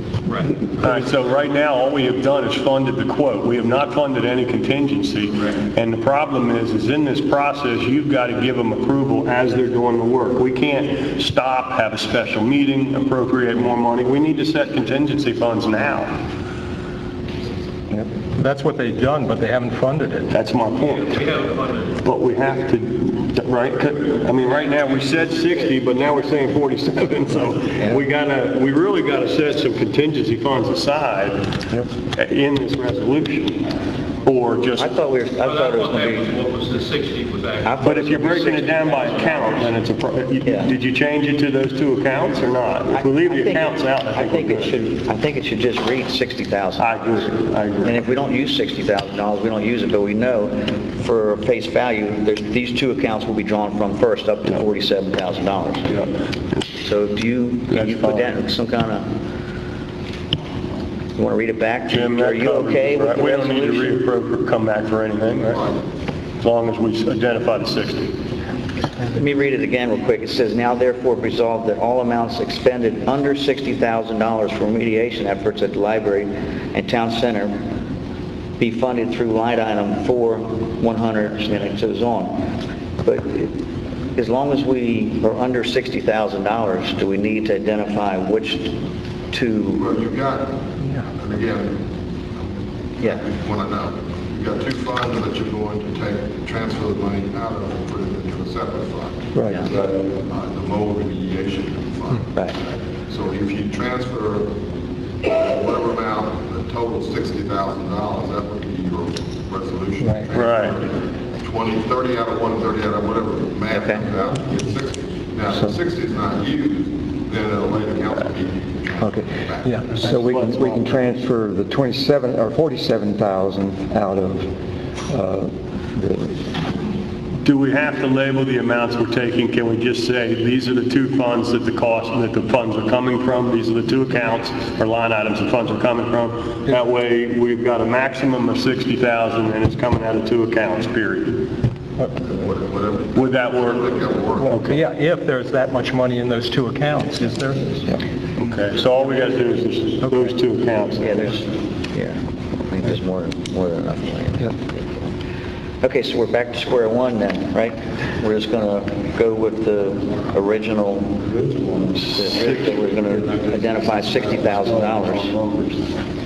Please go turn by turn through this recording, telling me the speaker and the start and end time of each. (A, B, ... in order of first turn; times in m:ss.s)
0:00.8-0:16.2 A
0:18.4-0:20.3 B
0:20.3-0:21.4 A
0:21.0-0:22.0 C
0:22.0-0:31.5 A
0:32.1-0:33.6 A
0:34.2-0:34.9 A
0:34.8-0:36.3 D
0:35.4-0:37.8 C
0:37.6-0:38.5 D
0:37.8-0:44.8 A
0:38.3-0:39.6 C
0:40.4-0:40.7 D
0:42.9-0:56.0 D
0:46.8-0:48.0 A
0:56.8-0:59.1 D
0:57.7-0:58.3 A
1:01.2-1:04.0 D
1:01.9-1:05.7 A
1:05.5-1:05.8 E
1:06.4-1:08.1 A
1:09.1-1:17.6 D
1:18.6-1:22.4 D
1:23.0-1:23.5 D
1:24.2-1:28.8 D
1:29.3-1:29.8 D
1:29.8-1:31.8 E
1:32.4-1:44.5 E
1:39.3-1:39.7 F
1:45.2-2:00.2 E
1:50.3-1:50.8 A
1:53.7-1:54.1 D
1:59.0-2:04.5 F
2:00.0-2:00.8 A
2:05.1-2:06.4 F
2:07.4-2:21.4 A
2:22.2-2:24.7 E
2:23.1-2:24.8 A
2:24.5-2:27.8 B
2:28.4-2:31.4 A
2:31.0-2:35.1 D
2:35.8-2:45.3 D
2:42.1-2:45.9 A